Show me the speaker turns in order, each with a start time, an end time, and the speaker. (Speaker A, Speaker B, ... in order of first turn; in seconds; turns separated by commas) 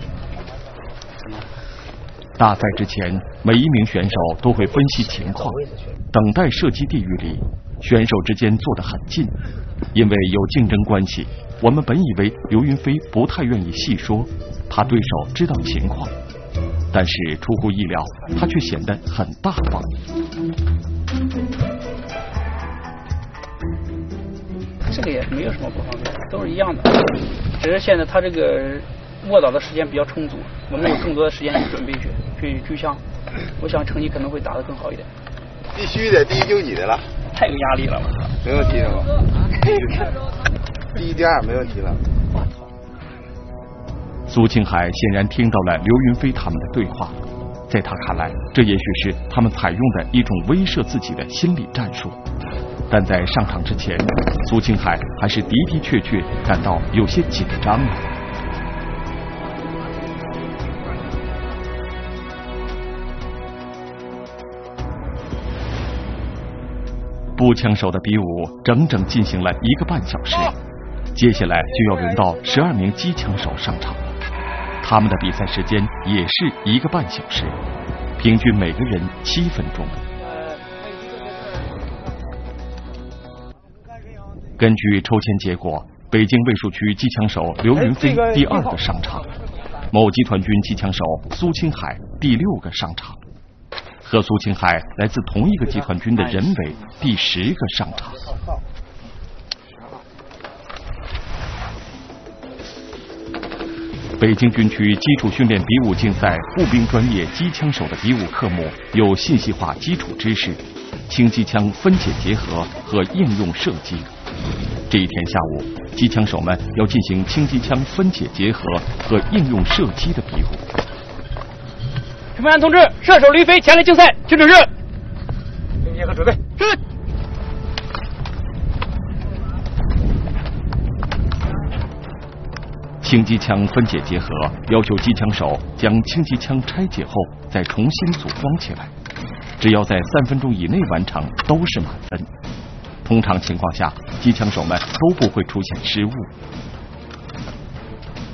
Speaker A: 2.4-5.6, Speaker B: 4.9-6.0, Speaker A: 6.1-9.4, Speaker A: 9.9-16.1, Speaker A: 16.9-19.9, Speaker C: 24.9-33.0, Speaker C: 33.6-35.1, Speaker B: 35.8-37.0, Speaker C: 37.3-38.4, Speaker B: 38.4-40.1, Speaker B: 41.0-42.0, Speaker A: 44.3-52.2, Speaker A: 52.9-58.1, Speaker A: 67.3-70.6, Speaker A: 71.1-74.2, Speaker A: 74.8-77.6, Speaker A: 78.2-80.0, Speaker A: 84.6-89.3, Speaker A: 89.9-93.2, Speaker A: 94.0-98.4, Speaker A: 104.2-114.1, Speaker A: 114.9-120.7, Speaker C: 122.3-124.7, Speaker A: 133.0-138.9, Speaker A: 139.6-142.3, Speaker A: 143.0-146.3